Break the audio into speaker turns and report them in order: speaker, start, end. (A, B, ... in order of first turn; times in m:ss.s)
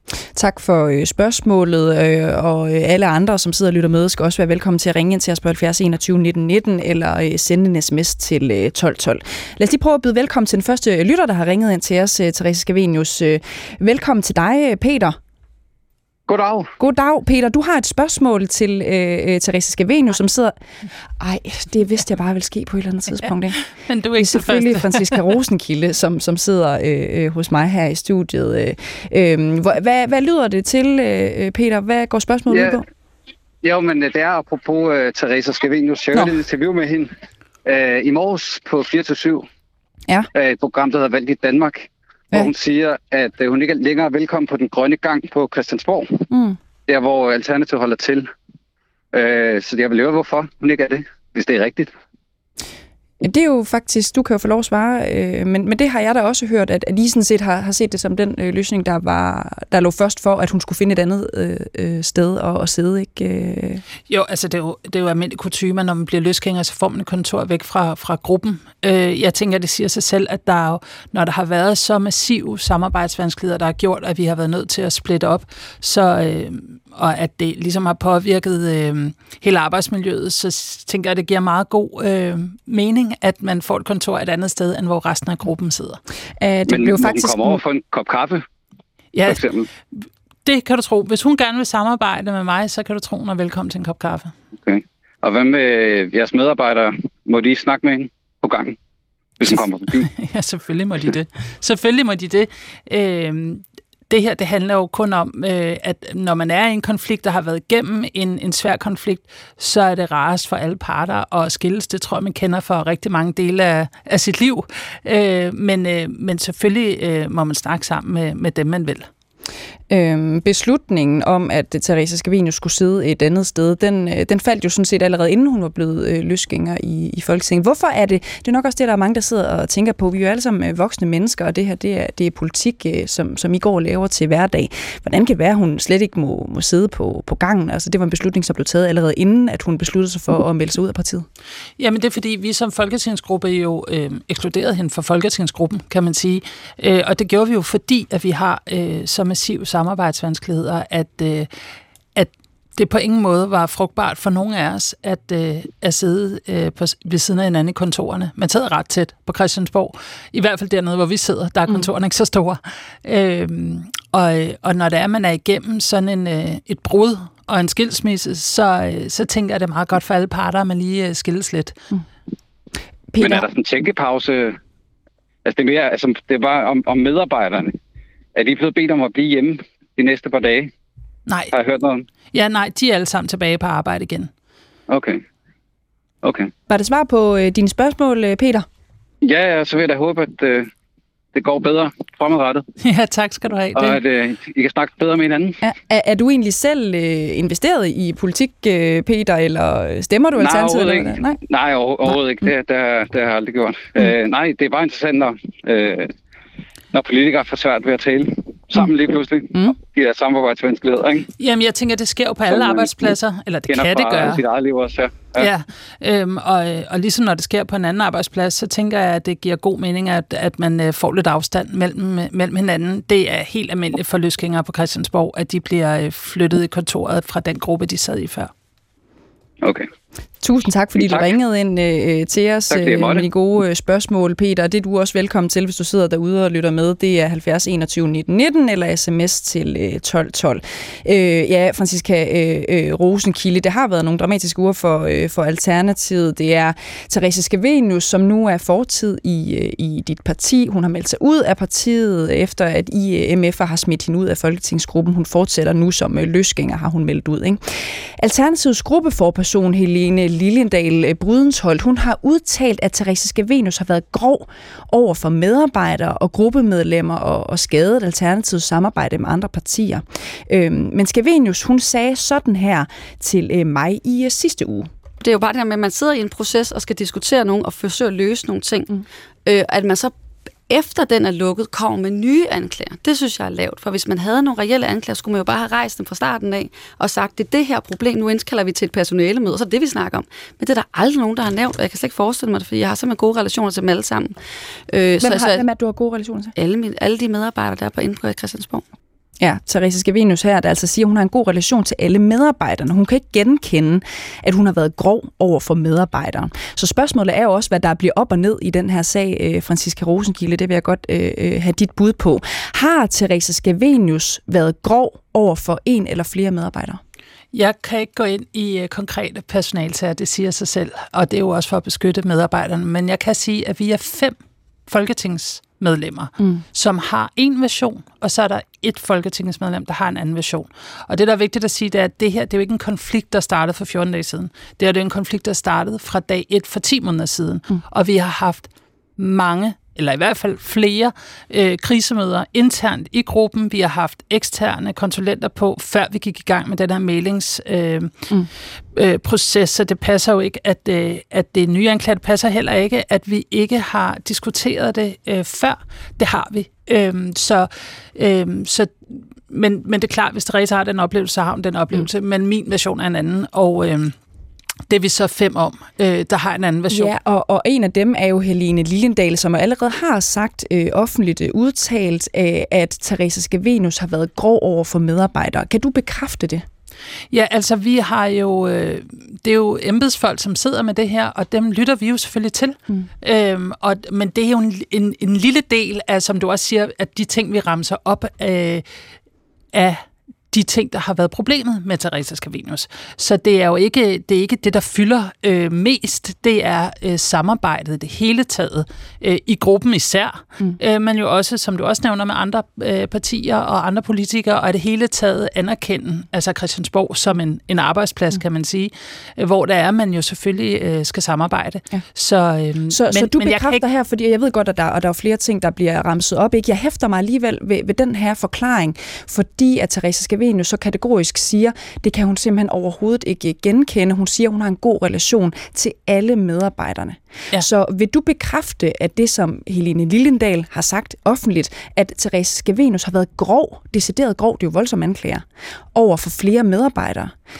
0:00.3-0:15.2 A
0:16.3-0:16.7 B
0:16.8-0:20.6 A
0:21.2-0:23.6 A
0:23.8-0:25.2 C
0:24.2-0:32.8 A
0:32.5-0:32.8 B
0:33.6-0:37.1 B
0:37.6-0:39.4 B
0:40.3-0:46.3 B
0:46.3-0:46.6 A
0:46.9-0:48.3 B
0:49.1-0:51.9 B
0:53.2-1:03.8 A
1:04.1-1:26.0 C
1:26.4-1:27.6 A
1:26.7-1:28.4 B
1:29.1-1:29.4 C
1:29.3-1:29.7 B
1:29.9-1:34.3 C
1:34.6-1:38.8 B
1:39.4-1:40.1 B
1:40.0-1:59.1 C
1:59.9-2:21.2 A
2:21.8-2:31.5 C
2:32.1-2:51.8 C
2:53.1-2:53.4 A
2:53.2-2:54.6 B
2:55.4-2:57.8 B
2:58.4-3:00.7 B
3:01.3-3:01.5 C
3:01.5-3:02.0 B
3:02.3-3:04.3 C
3:04.9-3:05.2 B
3:06.2-3:06.5 B
3:06.7-3:08.6 A
3:09.2-3:10.7 B
3:11.3-3:12.6 B
3:12.8-3:14.0 C
3:13.7-3:15.6 B
3:15.6-3:21.4 A
3:20.4-3:26.1 B
3:22.1-3:22.4 A
3:26.9-3:31.3 B
3:31.4-3:34.4 C
3:32.5-3:33.1 B
3:33.7-3:35.4 B
3:35.4-3:48.5 C
3:49.6-3:49.9 B
3:50.4-4:34.9 A
3:52.7-3:53.2 B
4:35.2-4:40.1 D
4:40.7-4:54.3 D
4:54.9-4:55.6 D
4:55.2-4:56.5 A
4:56.6-4:58.8 D
4:59.4-5:17.0 A
5:17.5-5:24.4 C
5:24.9-5:48.2 C
5:26.4-5:26.6 A
5:48.9-5:58.9 C
5:59.5-6:04.1 C
6:04.9-6:07.1 C
6:06.9-6:16.6 A
6:17.3-6:28.8 C
6:29.7-6:53.8 C
6:52.9-7:17.3 A